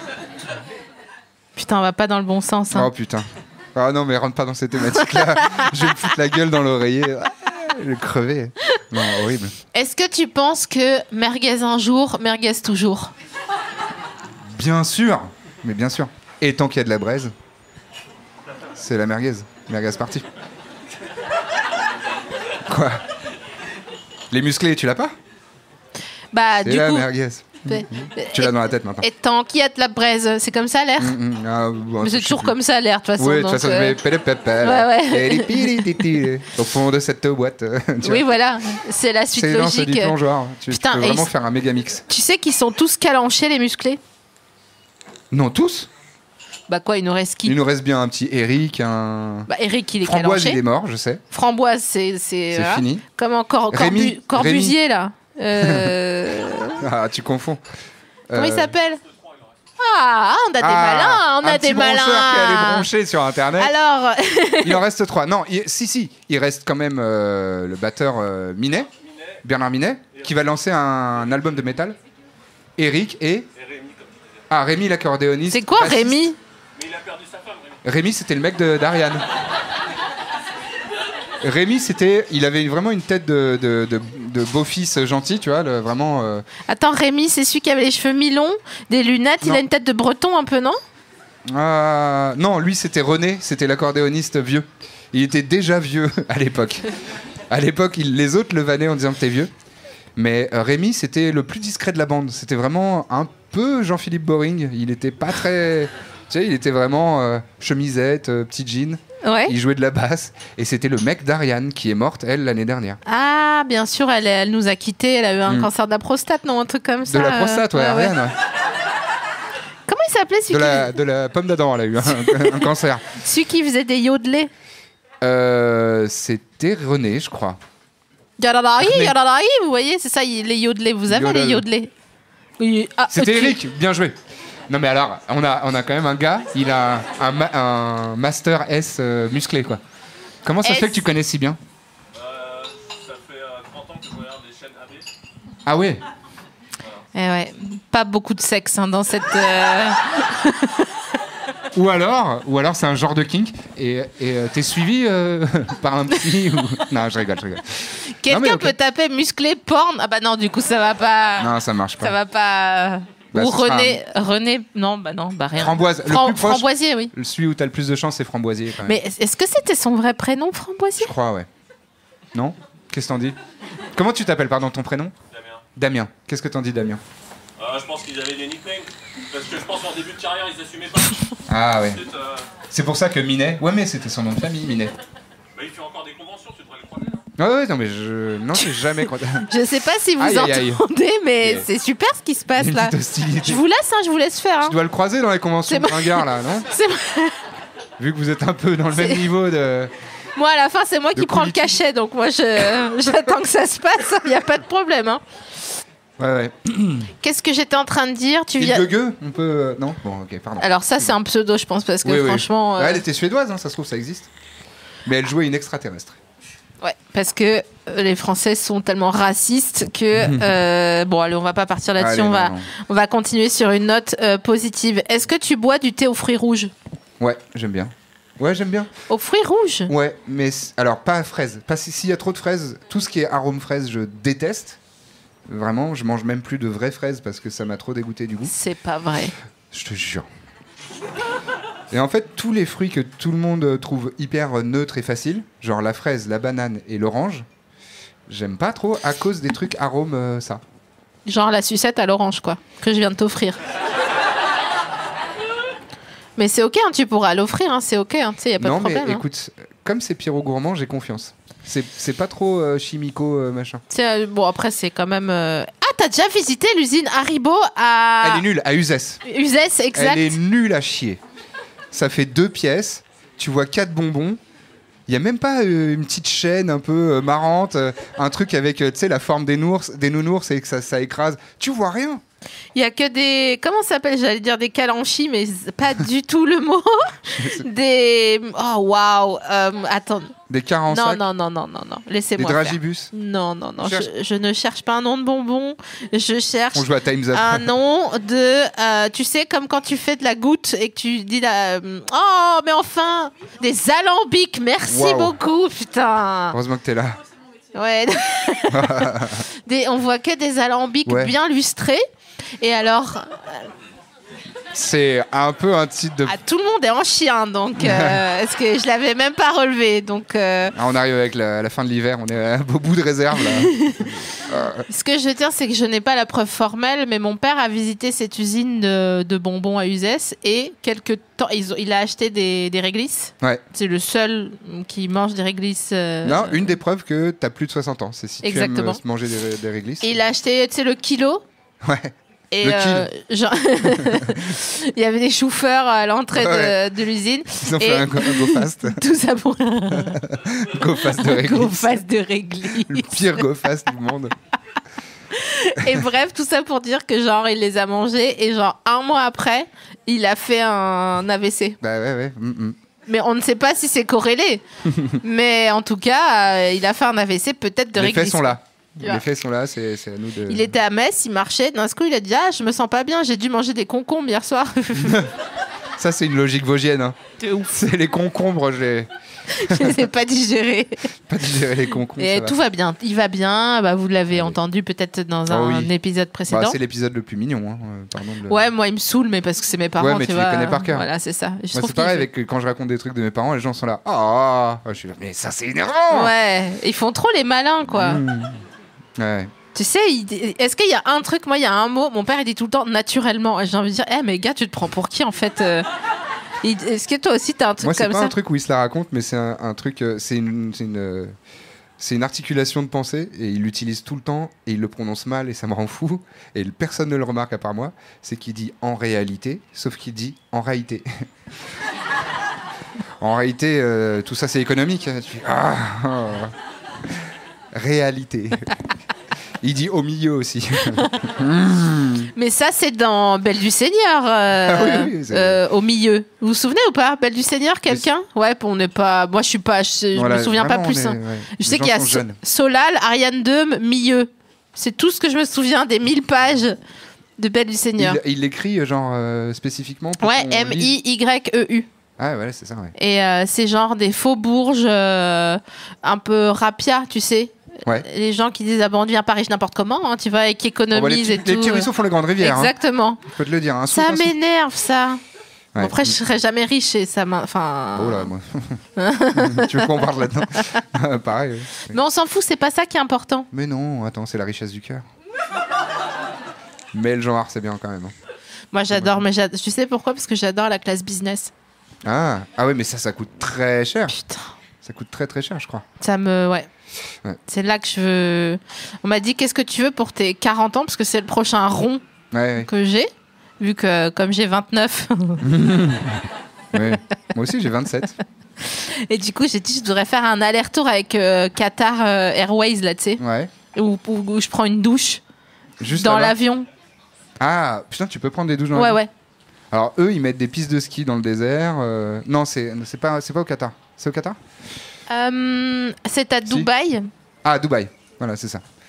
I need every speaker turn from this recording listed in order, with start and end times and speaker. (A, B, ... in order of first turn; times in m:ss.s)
0:01.6-0:02.9 A
0:02.7-0:09.5 B
0:05.0-0:05.9 A
0:09.7-0:13.1 A
0:14.5-0:17.3 B
0:18.7-0:20.3 B
0:22.6-0:23.0 B
0:24.3-0:25.1 B
0:26.3-0:27.1 A
0:26.6-0:29.1 B
0:27.6-0:31.2 A
0:31.0-0:32.5 B
0:32.0-0:34.0 A
0:33.2-0:38.2 B
0:34.6-0:36.2 A
0:38.0-0:40.1 A
0:39.3-0:42.0 B
0:40.7-0:41.3 A
0:42.1-0:44.0 A
0:45.3-0:45.9 B
0:46.7-0:47.6 A
0:47.4-0:49.5 B
0:49.5-0:50.6 A
0:50.0-0:51.2 B
0:51.3-0:56.8 A
0:52.5-0:53.0 B
0:53.7-0:54.8 B
0:55.6-0:55.9 B
0:56.8-0:57.6 B
0:58.3-0:58.7 B
0:58.3-0:59.0 A
0:59.0-0:59.5 C
0:59.8-1:02.9 A
1:00.6-1:03.7 B
1:03.6-1:04.8 A
1:04.6-1:08.9 B
1:09.0-1:09.4 C
1:09.4-1:12.0 B
1:12.8-1:13.5 B
1:13.5-1:14.4 C
1:14.5-1:16.2 B
1:15.5-1:16.4 A
1:16.8-1:17.8 C
1:17.8-1:19.2 B
1:21.4-1:26.4 B
1:26.7-1:30.8 A
1:31.5-1:36.9 B
1:37.5-1:39.5 B
1:40.2-1:53.0 B
1:49.2-1:49.5 A
1:53.0-1:58.1 A
1:57.1-1:58.3 B
1:59.9-2:00.9 A
2:00.5-2:03.0 B
2:02.0-2:04.5 A
2:05.2-2:07.6 B
2:08.4-2:11.9 A
2:08.8-2:09.1 B
2:11.1-2:11.6 B
2:12.6-2:13.6 A
2:13.1-2:14.2 B
2:14.7-2:19.8 B
2:20.4-2:21.6 B
2:20.6-2:21.0 A
2:22.1-2:25.0 C
2:25.6-2:26.0 B
2:27.1-2:30.9 A
2:31.7-2:38.8 B
2:38.0-2:47.1 A
2:41.4-2:42.2 B
2:43.3-2:44.0 B
2:45.5-2:49.0 B
2:48.8-2:51.1 A
2:51.0-2:51.5 B
2:52.3-2:53.4 B
2:53.9-2:55.1 B
2:55.3-2:55.6 C
2:55.8-2:57.0 B
2:57.6-3:02.5 C
3:01.5-3:02.0 B
3:02.7-3:04.9 B
3:05.5-3:07.2 C
3:07.4-3:09.5 B
3:08.6-3:14.8 A
3:10.2-3:10.8 B
3:11.4-3:11.7 B
3:12.6-3:13.6 B
3:14.6-3:16.7 B
3:15.7-3:17.4 A
3:18.0-3:19.9 B
3:18.9-3:19.2 A
3:20.4-3:25.2 A
3:21.1-3:21.8 B
3:26.2-3:27.1 B
3:27.2-3:28.9 A
3:28.6-3:31.1 B
3:30.6-3:33.0 A
3:32.0-3:34.3 B
3:35.0-3:36.2 B
3:36.8-3:46.7 A
3:40.1-3:40.5 B
3:42.0-3:42.7 B
3:47.2-3:48.9 B
3:49.1-3:49.9 A
3:49.9-3:54.8 B
3:55.5-3:58.5 B
3:58.4-3:59.3 A
3:59.7-4:00.3 B
4:01.9-4:07.4 B
4:08.3-4:10.6 B
4:11.2-4:13.6 A
4:16.4-4:19.2 A
4:18.6-4:23.8 B
4:23.9-4:28.4 A
4:28.2-4:29.2 B
4:29.2-4:30.4 A
4:29.9-4:31.2 B
4:31.9-4:34.4 B
4:35.1-4:42.2 B
4:42.7-4:50.3 A
4:47.3-4:47.6 B
4:50.5-4:51.2 B
4:50.9-5:06.6 A
4:52.4-4:53.1 B
4:53.8-4:54.1 B
4:56.7-4:57.7 B
5:04.8-5:05.4 B
5:06.5-5:07.2 B
5:07.7-5:12.0 A
5:08.7-5:09.4 B
5:11.0-5:11.4 B
5:12.6-5:13.7 A
5:14.7-5:16.4 B
5:16.2-5:20.7 A
5:17.8-5:18.2 B
5:20.7-5:24.8 B
5:23.4-5:24.1 A
5:24.9-5:36.8 A
5:36.2-5:40.1 B
5:38.4-5:39.0 A
5:40.0-5:41.4 A
5:41.8-5:43.1 B
5:42.5-5:50.2 A
5:44.0-5:44.5 B
5:46.3-5:46.8 B
5:47.6-5:49.0 B
5:49.9-5:52.0 B
5:51.0-5:53.4 A
5:52.8-5:54.4 B
5:55.3-6:01.8 A
6:01.8-6:02.8 B
6:03.0-6:09.2 A
6:04.9-6:05.1 B
6:07.9-6:10.7 B
6:10.5-6:15.2 A
6:15.0-6:15.3 B
6:16.0-6:17.2 B
6:17.4-6:17.8 A
6:17.7-6:20.0 B
6:19.5-6:21.0 A
6:21.3-6:22.6 B
6:22.2-6:26.8 A
6:25.5-6:25.9 B
6:26.5-6:28.6 B
6:28.5-6:32.3 A
6:30.0-6:31.1 B
6:31.7-6:36.3 B
6:36.1-6:38.2 A
6:37.9-6:38.6 B
6:39.2-6:39.5 B
6:39.7-6:45.8 A
6:46.6-6:48.4 A
6:47.8-6:51.3 B
6:52.0-7:01.3 B
7:03.2-7:08.7 B
7:09.6-7:12.3 B
7:12.3-7:26.8 A
7:14.6-7:15.6 B
7:20.1-7:22.4 B
7:27.4-7:28.2 A
7:28.0-7:31.0 B
7:30.2-7:31.9 A
7:32.2-7:32.9 B
7:33.0-7:43.2 A
7:40.9-7:42.7 B
7:43.2-7:44.3 B
7:43.9-7:45.2 A
7:45.7-7:46.1 B
7:45.8-7:48.3 A
7:47.9-7:48.8 B
7:49.0-7:50.8 A
7:49.3-7:52.0 B
7:51.8-7:53.5 A
7:53.5-7:55.0 B
7:56.9-7:58.1 B
7:58.7-8:01.5 A
7:58.9-7:59.2 B
8:02.0-8:04.2 B
8:04.1-8:04.5 A
8:04.8-8:05.8 B
8:06.0-8:06.7 A
8:07.5-8:12.0 A
8:12.3-8:12.7 B
8:12.6-8:15.4 A
8:15.4-8:18.2 B
8:18.6-8:23.2 A
8:23.2-8:23.5 B
8:23.7-8:25.2 A
8:25.8-8:26.3 B
8:25.9-8:26.7 A
8:27.4-8:29.0 B
8:28.7-8:29.1 A
8:29.7-8:34.4 B
8:35.1-8:37.1 A
8:37.4-8:38.6 B